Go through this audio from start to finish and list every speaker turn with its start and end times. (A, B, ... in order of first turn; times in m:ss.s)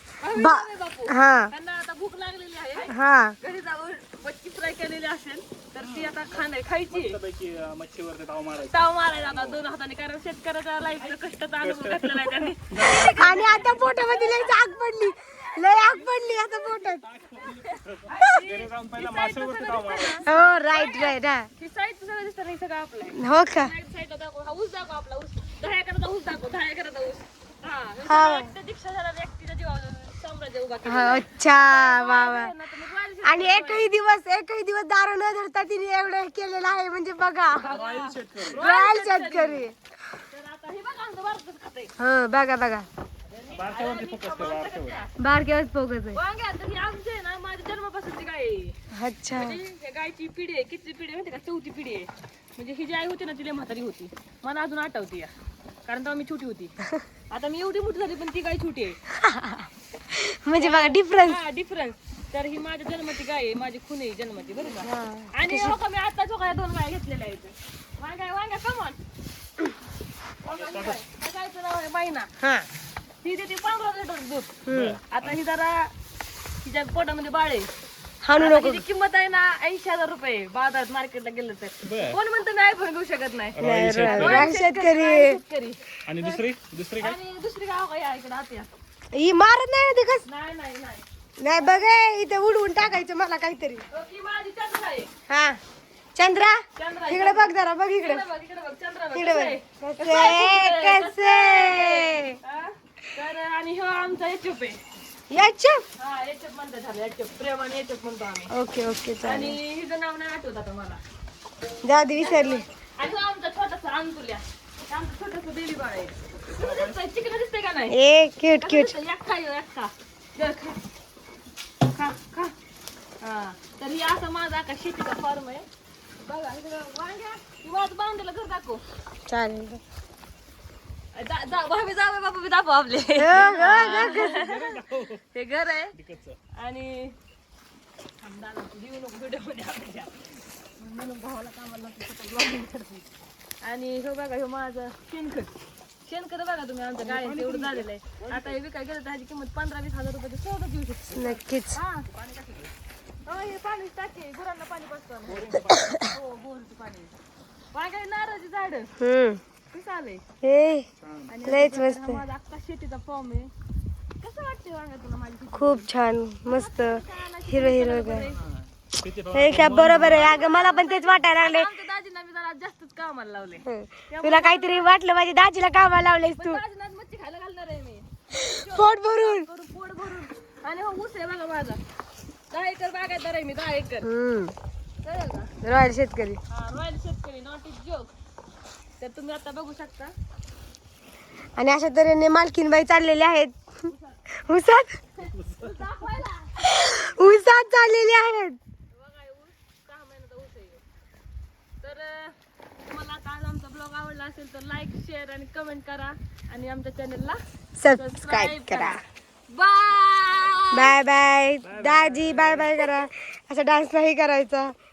0:00.2-0:07.2 A
0:00.3-0:01.5 B
0:02.9-0:03.4 B
0:05.8-0:09.6 C
0:08.7-0:16.1 A
0:11.1-0:13.6 C
0:13.2-0:17.0 B
0:17.0-0:20.3 C
0:17.4-0:33.9 A
0:20.2-0:21.5 B
0:23.2-0:23.7 B
0:28.1-0:28.5 B
0:30.8-0:32.5 B
0:33.2-0:37.7 B
0:37.6-0:39.6 A
0:37.6-0:38.6 C
0:38.5-0:39.8 B
0:40.3-0:41.9 A
0:42.0-0:42.9 B
0:43.3-0:45.2 A
0:43.5-0:45.0 C
0:45.2-0:46.2 B
0:46.1-0:48.8 A
0:48.9-0:49.6 B
0:49.3-0:55.3 A
0:55.9-0:56.7 A
0:57.3-0:59.0 A
0:59.2-1:01.4 B
1:00.6-1:09.0 A
1:04.8-1:05.8 B
1:10.4-1:12.3 A
1:10.5-1:11.0 C
1:12.4-1:12.7 B
1:13.2-1:14.6 A
1:14.7-1:15.0 B
1:14.7-1:15.4 C
1:15.1-1:15.9 A
1:16.6-1:17.7 A
1:18.2-1:18.8 B
1:18.4-1:26.4 A
1:21.8-1:22.2 C
1:23.5-1:24.5 C
1:23.6-1:25.4 B
1:26.1-1:27.2 C
1:27.0-1:28.7 A
1:29.1-1:30.2 B
1:30.2-1:31.0 A
1:31.4-1:33.8 B
1:33.9-1:35.1 A
1:35.3-1:35.6 B
1:36.2-1:38.2 B
1:36.8-1:44.8 A
1:39.1-1:42.4 B
1:45.3-1:45.8 B
1:46.0-1:48.5 A
1:48.5-1:49.6 B
1:49.2-1:51.0 A
1:51.8-1:52.7 B
1:52.2-1:58.0 A
1:56.6-1:56.9 C
1:57.9-1:59.0 B
1:58.6-2:00.8 A
2:01.9-2:02.5 A
2:03.2-2:05.7 A
2:06.2-2:08.8 A
2:09.3-2:09.8 B
2:11.1-2:14.8 A
2:13.2-2:14.4 B
2:13.4-2:15.3 C
2:15.3-2:16.0 A
2:15.9-2:16.4 C
2:16.5-2:17.2 A
2:18.2-2:23.1 A
2:23.6-2:25.5 A
2:26.1-2:32.1 A
2:27.0-2:28.6 C
2:31.2-2:31.8 B
2:32.1-2:32.7 C
2:33.3-2:37.1 A
2:35.3-2:36.1 C
2:37.7-2:38.9 A
2:39.0-2:39.4 B
2:39.7-2:40.2 A
2:40.4-2:40.9 B
2:41.0-2:41.3 C
2:41.3-2:43.5 A
2:41.4-2:42.2 B
2:44.2-2:45.9 A
2:45.5-2:48.3 B
2:46.5-2:48.4 A
2:48.3-2:50.6 C
2:49.3-2:51.7 B
2:50.1-2:54.9 A
2:53.7-2:56.6 B
2:56.4-3:01.8 A
2:58.4-2:59.5 B
3:02.5-3:04.1 A
3:04.0-3:04.5 B
3:05.0-3:05.5 A
3:05.6-3:06.4 B
3:06.5-3:08.1 A
3:09.0-3:10.1 A
3:11.6-3:13.7 B
3:13.9-3:14.2 A
3:14.4-3:15.0 B
3:15.2-3:16.5 A
3:15.3-3:15.8 C
3:16.6-3:18.6 B
3:18.9-3:20.8 A
3:21.8-3:27.4 A
3:27.8-3:29.0 B
3:27.9-3:31.0 A
3:30.7-3:34.7 B
3:31.6-3:32.8 C